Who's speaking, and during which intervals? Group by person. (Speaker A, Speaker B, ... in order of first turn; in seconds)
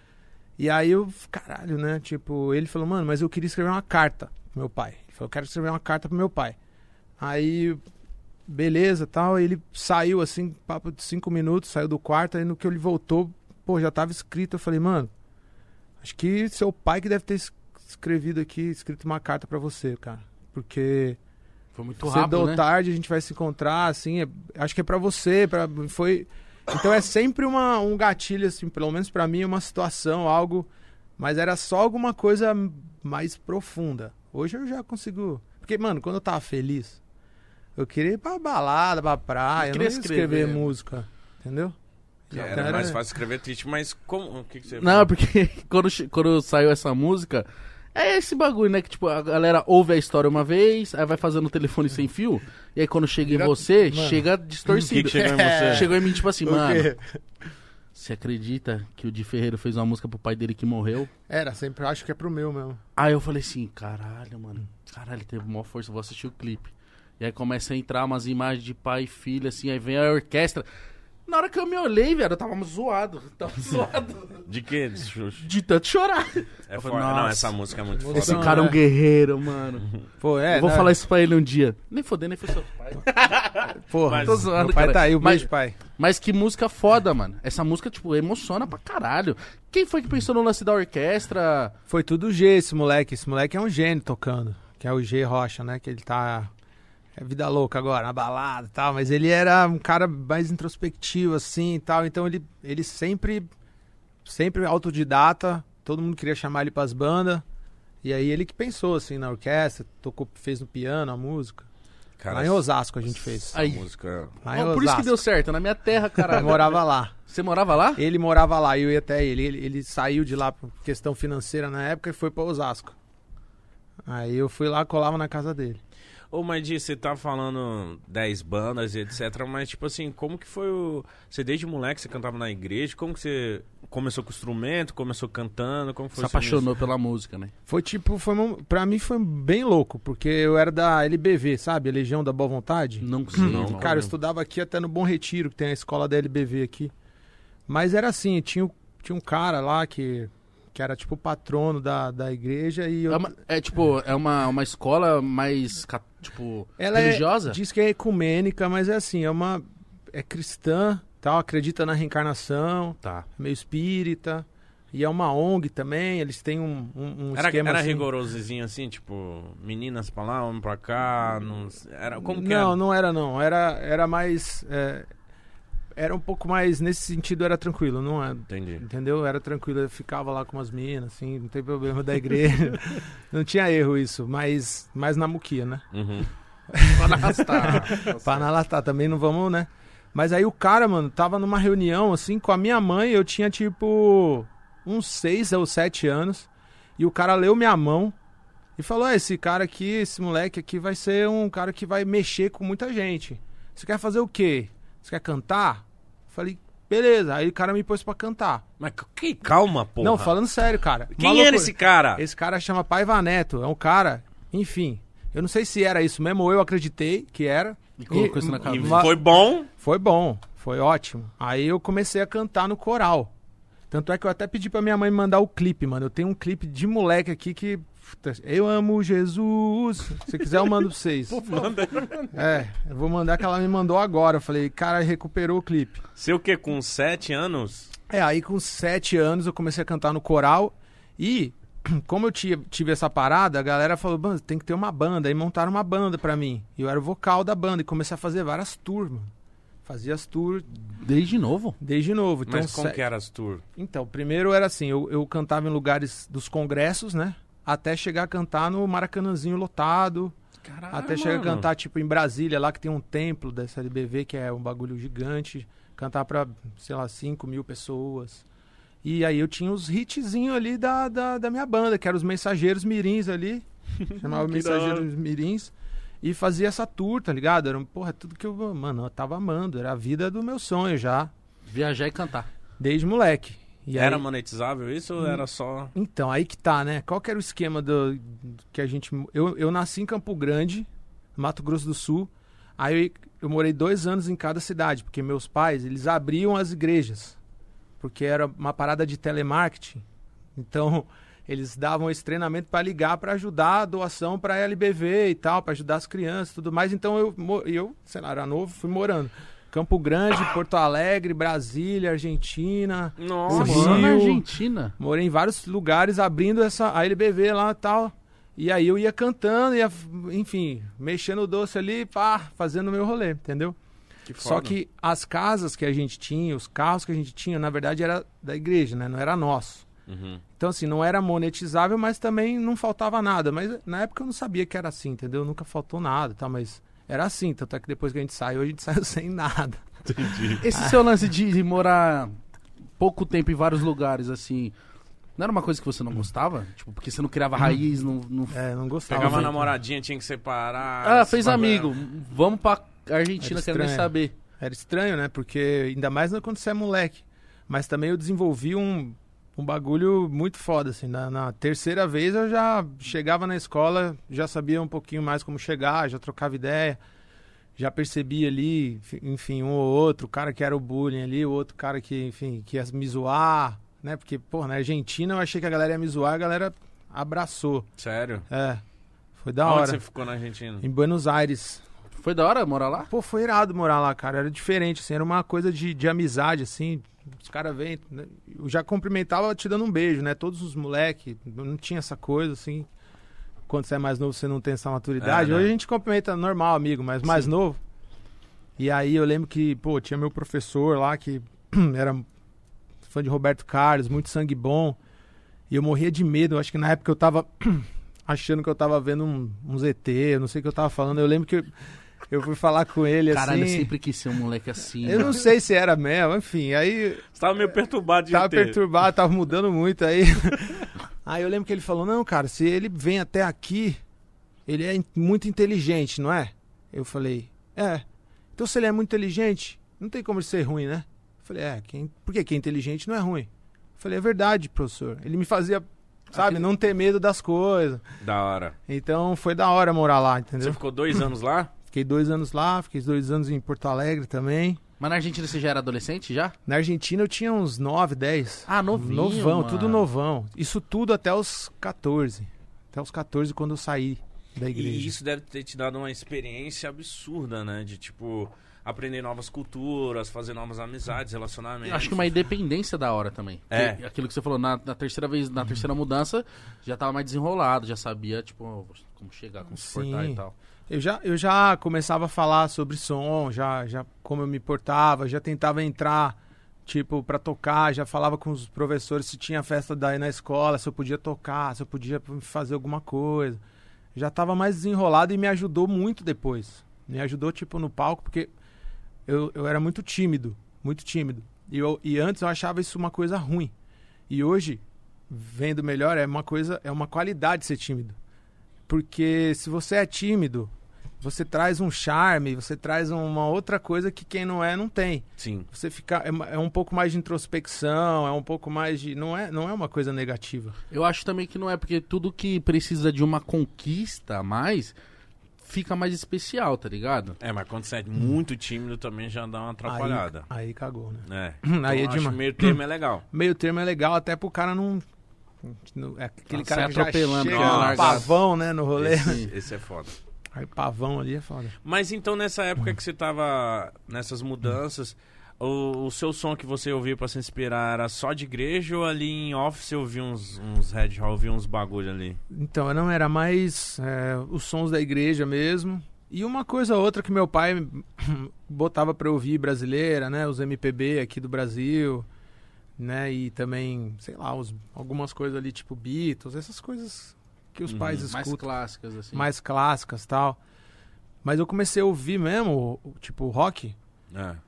Speaker A: 0.6-6.6, 7.2-7.8, 8.5-15.1, 16.0-21.2, 22.0-37.0, 37.8-41.8, 42.3-43.0, 53.2-57.2, 61.3-62.8, 78.0-78.8, 80.2-80.9, 83.7-85.8, 91.9-96.5, 97.2-103.5, 104.2-107.4, 108.0-111.7, 112.3-113.8, 114.4-115.2, 116.3-117.1, 118.0-123.0, 124.0-125.8, 137.7-146.9, 147.7-153.3, 156.8-168.1, 172.2-175.1, 175.9-185.8, 186.7-198.1, 198.8-208.6, 210.0-223.3, 223.9-231.4, 232.3-236.0, 238.1-249.3, 249.8-250.7, 251.8-253.0, 253.8-260.3, 260.9-268.4, 269.0-281.3, 282.8-284.2, 285.9-297.4, 298.0-300.0, 300.5-314.4, 315.0-323.8, 324.4-329.9, 330.6-341.0, 348.5-349.7, 353.4-367.0, 367.8-377.9, 378.5-378.8, 379.4-380.0, 380.8-381.8, 383.1-392.9, 393.7-397.8, 398.8-402.2, 403.1-405.0, 405.7-411.7, 412.3-413.9, 415.0-417.2, 418.3-424.0, 424.6-438.0, 438.9-441.3, 441.9-444.8, 446.6-455.1, 469.7-483.6, 484.1-488.5, 489.3-493.7, 494.3-498.2, 498.9-510.8, 519.9-522.8, 523.3-525.0, 525.6-529.4, 530.5-531.7, 542.5-552.3, 553.0-558.6, 559.3-560.6, 561.4-564.0
Speaker B: 21.7-22.6, 39.6-40.7, 42.4-42.8, 44.8-56.9, 57.9-61.1, 63.0-70.7, 71.3-74.4, 75.4-77.6, 78.1-79.9, 80.5-83.4, 84.2-91.7, 113.5-113.8, 114.5-118.0, 136.2-137.5, 143.0-144.0, 153.1-157.6, 186.9-188.4, 218.0-219.1, 231.6-232.1, 250.9-251.8, 281.7-282.5, 313.5-314.9, 340.6-342.4, 343.0-344.7, 345.4-348.6, 349.1-349.5, 351.0-354.3, 382.2-383.1, 413.3-415.4, 445.0-446.5, 448.7-450.0, 461.8-470.5, 510.9-514.9, 515.6-517.4, 526.5-528.3, 529.2-529.5, 558.2-559.5
Speaker C: 42.3-45.1, 54.8-56.0, 74.4-75.5, 76.7-78.7, 83.4-84.5, 112.2-112.6, 113.5-114.3, 126.3-136.7, 143.3-144.1, 167.3-172.8, 178.5-178.8, 185.9-186.3, 208.8-210.3, 211.2-212.2, 218.6-219.7, 231.3-232.2, 236.2-237.9, 252.5-253.6, 260.7-261.7, 274.1-275.1, 283.9-285.9, 313.2-314.1, 324.3-324.7, 330.1-330.4, 340.1-340.6, 349.1-351.9, 378.0-378.4, 379.6-380.8, 395.2-395.7, 417.3-418.8, 438.2-438.8, 440.6-441.7, 454.7-462.3, 463.7-464.0, 505.4-505.7, 517.4-520.5, 521.3-523.2, 527.5-528.3, 529.0-530.1, 531.8-542.4, 557.9-558.3, 564.3-564.6